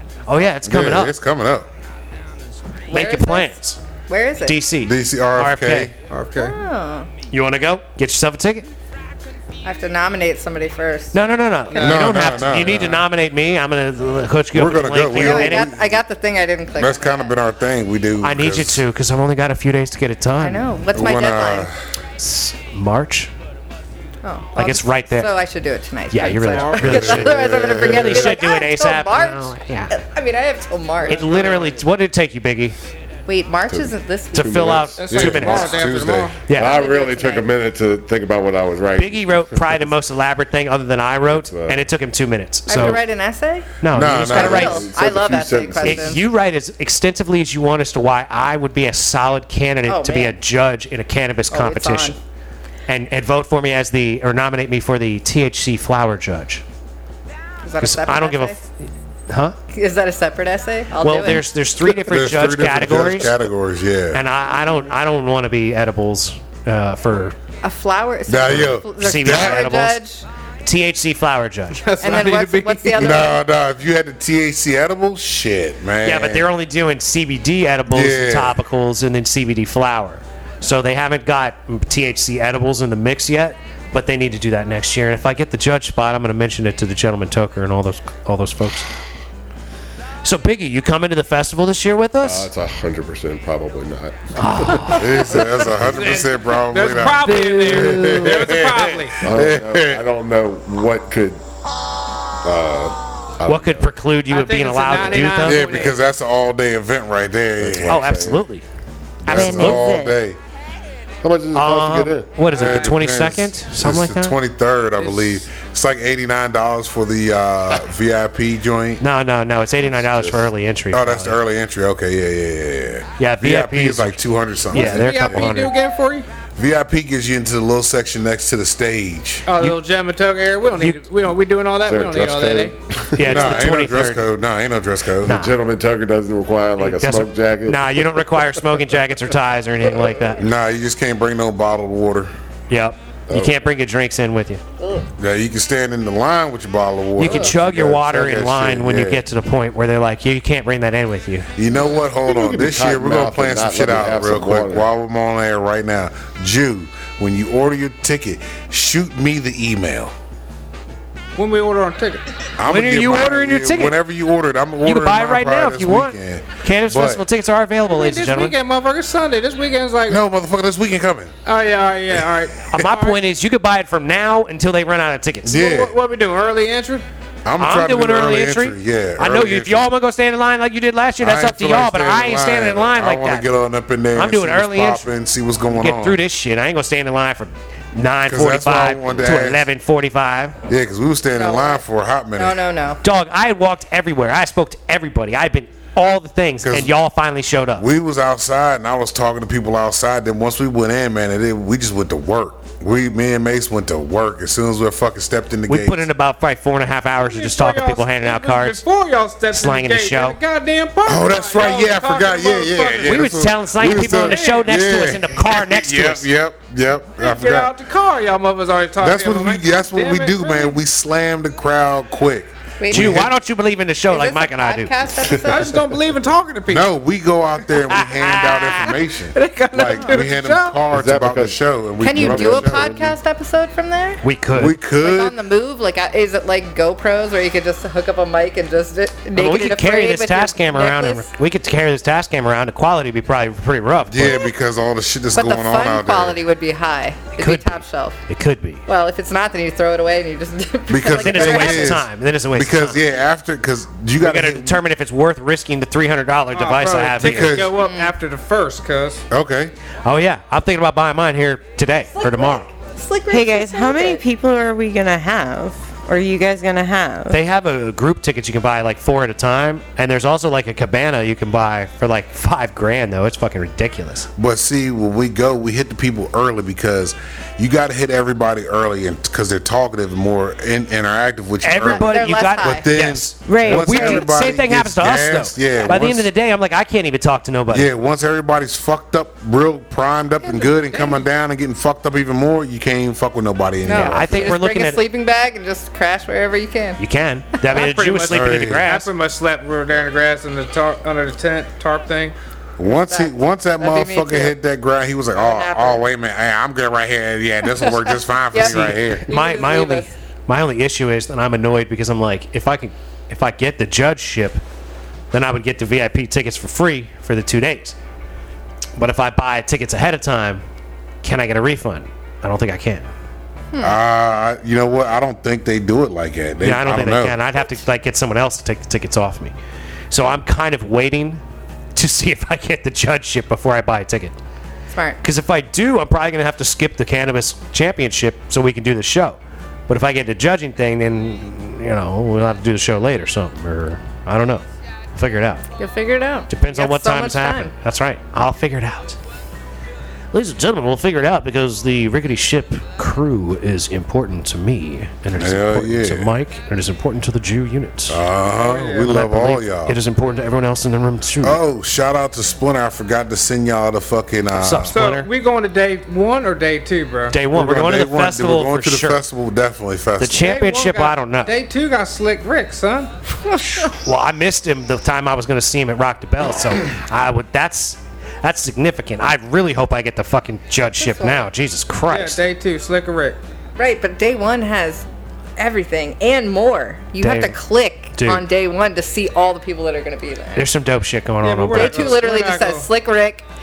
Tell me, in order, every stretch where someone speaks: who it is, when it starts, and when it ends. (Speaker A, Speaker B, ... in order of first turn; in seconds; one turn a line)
Speaker A: 0.3-1.1
Speaker B: 0.6-1.7
Speaker C: 2.9-3.5
Speaker A: 2.9-3.8
Speaker C: 4.1-4.6
Speaker A: 4.5-5.9
Speaker B: 4.8-5.9
Speaker D: 6.1-6.6
Speaker C: 6.3-7.1
Speaker A: 7.3-8.7
Speaker C: 9.6-11.1
Speaker A: 11.1-15.7
Speaker B: 11.7-13.1
Speaker B: 14.5-15.9
Speaker C: 15.2-17.3
Speaker B: 16.8-18.8
Speaker A: 18.2-20.6
Speaker C: 20.4-21.7
Speaker B: 20.9-21.7
Speaker A: 22.2-23.3
Speaker C: 24.2-31.7
Speaker A: 24.6-25.3
Speaker A: 26.1-29.9
Speaker D: 26.4-27.1
Speaker B: 26.8-28.3
Speaker A: 31.1-32.8
Speaker D: 31.1-31.6
Speaker C: 33.3-34.8
Speaker E: 33.7-35.8
Speaker A: 34.3-35.8
Speaker D: 35.0-36.4
Speaker B: 35.1-36.3
Speaker A: 36.5-36.8
Speaker E: 36.5-39.9
Speaker C: 36.5-37.5
Speaker A: 39.0-43.0
Speaker E: 41.2-41.8
Speaker C: 42.7-46.2
Speaker A: 43.8-44.8
Speaker B: 43.9-44.8
Speaker E: 44.3-46.2
Speaker A: 45.8-52.1
Speaker C: 49.9-50.3
Speaker C: 51.5-52.2
Speaker A: 52.9-56.6
Speaker C: 57.6-58.6
Speaker A: 57.8-58.6
Speaker A: 59.3-59.5
Speaker C: 59.7-61.5
Speaker A: 61.0-63.4
Speaker B: 61.8-64.2
Speaker A: 64.1-67.3
Speaker C: 67.6-70.2
Speaker B: 68.3-69.6
Speaker A: 69.0-70.0
Speaker A: 70.6-71.8
Speaker D: 71.8-73.2
Speaker C: 72.0-73.4
Speaker B: 73.0-76.5
Speaker A: 76.0-88.9
Speaker B: 77.9-78.6
Speaker A: 90.2-92.5
Speaker E: 92.2-95.2
Speaker A: 94.3-95.4
Speaker B: 95.0-100.0
Speaker E: 95.8-96.2
Speaker D: 95.8-99.2
Speaker E: 99.2-101.4
Speaker E: 102.4-103.9
Speaker A: 103.5-105.9
Speaker D: 104.3-105.9
Speaker B: 105.4-108.0
Speaker E: 107.6-108.5
Speaker A: 107.8-108.6
Speaker A: 109.2-110.0
Speaker B: 109.2-110.4
Speaker F: 109.2-110.2
Speaker E: 111.2-112.8
Speaker A: 111.5-114.3
Speaker B: 112.5-119.0
Speaker A: 119.0-121.4
Speaker E: 119.8-120.5
Speaker B: 120.9-125.5
Speaker A: 123.2-124.2
Speaker A: 124.7-125.7
Speaker D: 124.7-126.2
Speaker B: 126.6-129.4
Speaker D: 129.4-132.8
Speaker E: 131.8-133.7
Speaker A: 133.1-134.3
Speaker B: 133.2-135.4
Speaker A: 135.2-135.5
Speaker E: 135.2-138.6
Speaker A: 136.8-140.4
Speaker B: 140.4-142.3
Speaker A: 142.7-144.6
Speaker E: 143.3-143.6
Speaker C: 144.8-145.1
Speaker B: 145.2-149.2
Speaker A: 147.2-151.5
Speaker B: 151.6-160.1
Speaker E: 152.2-154.9
Speaker D: 161.3-162.2
Speaker B: 162.6-167.2
Speaker A: 162.7-164.0
Speaker A: 164.8-168.6
Speaker D: 167.8-170.2
Speaker B: 170.1-171.3
Speaker D: 171.4-173.2
Speaker A: 172.7-175.6
Speaker B: 175.4-175.9
Speaker D: 175.5-177.0
Speaker B: 177.4-179.9
Speaker A: 177.6-183.5
Speaker B: 181.2-186.2
Speaker A: 184.1-185.1
Speaker A: 185.7-190.6
Speaker B: 188.3-189.7
Speaker B: 190.7-192.6
Speaker C: 191.4-191.8
Speaker C: 192.3-193.0
Speaker A: 193.0-197.8
Speaker B: 196.6-196.9
Speaker B: 197.8-206.1
Speaker A: 205.7-208.8
Speaker D: 207.2-213.2
Speaker A: 209.5-210.4
Speaker B: 211.0-217.7
Speaker A: 213.0-216.3
Speaker D: 213.9-214.7
Speaker D: 217.2-220.8
Speaker B: 219.0-223.3
Speaker C: 222.8-223.3
Speaker A: 222.9-224.9
Speaker C: 224.1-225.8
Speaker E: 225.2-225.6
Speaker D: 225.4-226.9
Speaker B: 226.7-232.9
Speaker D: 227.9-230.8
Speaker E: 230.9-233.2
Speaker C: 232.0-234.2
Speaker A: 234.2-234.8
Speaker B: 234.5-235.3
Speaker C: 234.9-241.3
Speaker A: 239.3-244.4
Speaker B: 244.1-246.4
Speaker C: 245.3-248.2
Speaker A: 247.4-248.8
Speaker C: 248.9-252.0
Speaker B: 250.9-254.8
Speaker A: 251.2-253.0
Speaker A: 254.2-257.6
Speaker D: 256.5-259.2
Speaker B: 257.2-257.7
Speaker C: 257.8-258.1
Speaker B: 259.3-259.7
Speaker A: 260.0-262.7
Speaker C: 262.1-264.2
Speaker F: 263.3-267.4
Speaker A: 267.3-274.3
Speaker B: 274.4-286.3
Speaker A: 281.6-287.9
Speaker C: 282.1-282.9
Speaker F: 283.4-284.1
Speaker B: 287.7-294.6
Speaker C: 293.9-297.0
Speaker A: 293.9-295.0
Speaker A: 297.0-299.1
Speaker D: 297.7-302.3
Speaker B: 298.3-298.9
Speaker B: 302.8-309.3
Speaker C: 303.1-304.6
Speaker C: 305.4-306.0
Speaker C: 307.7-310.1
Speaker A: 308.6-314.6
Speaker A: 315.3-317.9
Speaker A: 319.0-320.6
Speaker A: 321.2-323.1
Speaker C: 323.7-324.0
Speaker B: 323.8-327.4
Speaker A: 326.6-329.5
Speaker A: 330.1-331.4
Speaker A: 331.9-334.4
Speaker C: 334.9-335.2
Speaker A: 335.2-344.6
Speaker A: 345.1-345.6
Speaker C: 345.8-347.7
Speaker A: 346.5-349.2
Speaker A: 350.3-358.2
Speaker B: 355.4-356.3
Speaker B: 358.1-360.0
Speaker D: 358.6-359.1
Speaker A: 359.0-361.6
Speaker B: 361.4-364.9
Speaker A: 364.5-365.3
Speaker D: 364.9-367.4
Speaker A: 367.3-369.2
Speaker B: 367.5-370.5
Speaker A: 370.2-371.5
Speaker D: 370.4-373.1
Speaker C: 373.4-373.9
Speaker A: 373.9-382.4
Speaker C: 381.0-381.5
Speaker D: 382.1-383.4
Speaker C: 383.8-385.1
Speaker C: 385.6-390.7
Speaker A: 387.2-387.6
Speaker A: 388.1-388.4
Speaker A: 390.6-392.2
Speaker D: 391.4-392.9
Speaker C: 391.7-393.4